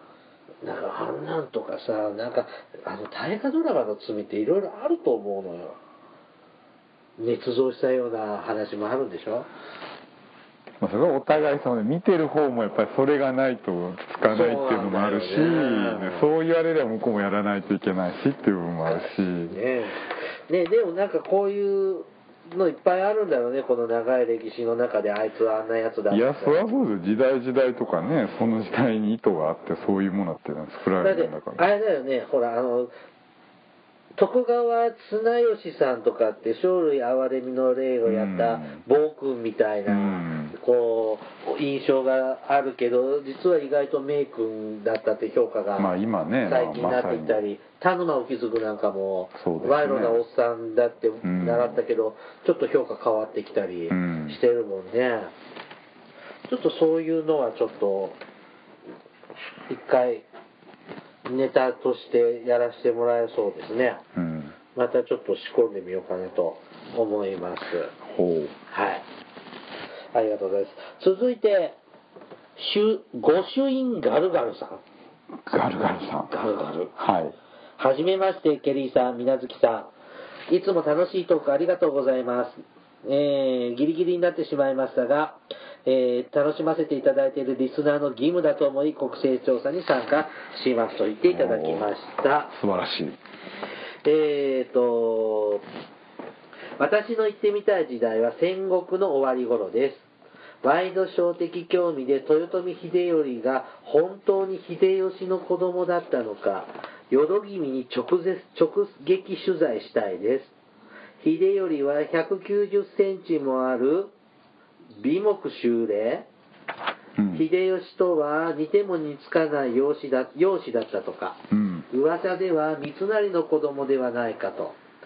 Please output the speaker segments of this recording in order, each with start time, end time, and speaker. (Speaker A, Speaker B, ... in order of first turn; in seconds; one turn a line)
Speaker A: 0.6-5.8
Speaker A: 7.2-9.5
Speaker B: 10.8-19.6
Speaker A: 14.2-16.3
Speaker A: 18.9-26.6
Speaker B: 26.1-31.6
Speaker A: 31.0-32.9
Speaker A: 34.2-45.9
Speaker B: 38.0-38.8
Speaker B: 39.9-40.6
Speaker B: 45.8-47.4
Speaker A: 46.5-55.3
Speaker B: 49.4-50.2
Speaker B: 51.2-51.8
Speaker B: 53.9-54.4
Speaker A: 56.5-58.2
Speaker A: 59.7-60.2
Speaker A: 61.2-64.0
Speaker B: 64.2-64.5
Speaker A: 64.8-67.9
Speaker B: 68.0-68.5
Speaker A: 68.7-69.0
Speaker A: 70.1-71.8
Speaker A: 72.6-74.8
Speaker B: 75.5-76.3
Speaker A: 76.3-76.9
Speaker B: 77.0-77.3
Speaker A: 77.8-79.9
Speaker A: 80.5-92.5
Speaker B: 91.3-91.9
Speaker B: 92.5-93.2
Speaker A: 94.0-95.6
Speaker A: 96.8-100.1
Speaker A: 100.6-110.5
Speaker A: 111.2-114.1
Speaker A: 115.0-116.2
Speaker B: 117.2-117.5
Speaker A: 117.3-121.4
Speaker B: 121.5-121.9
Speaker A: 121.9-124.8